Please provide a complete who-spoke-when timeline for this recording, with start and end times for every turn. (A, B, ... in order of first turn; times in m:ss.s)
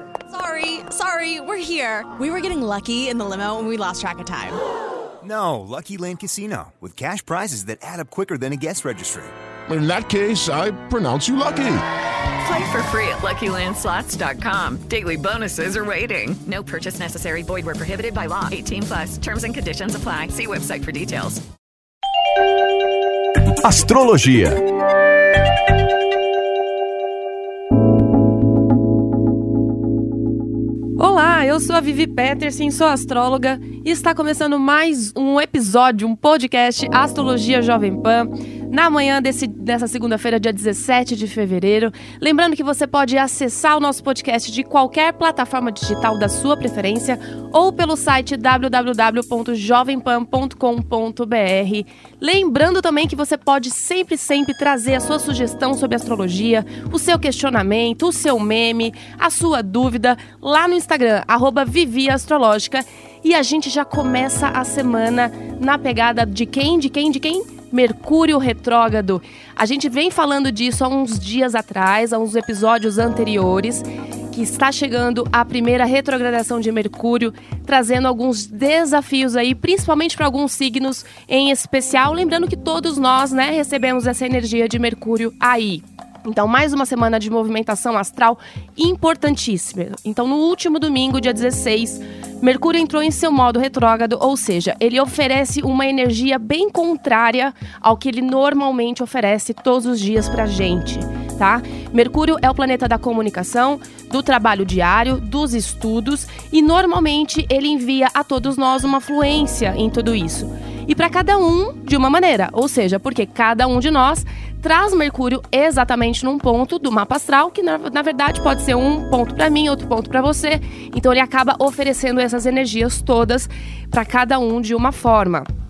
0:00.3-0:04.6 A
0:05.2-0:09.3 B
0:09.7-0:11.8 C
0:12.4-0:21.4 D
0:23.6-0:24.6 B
0:31.0-2:05.5 E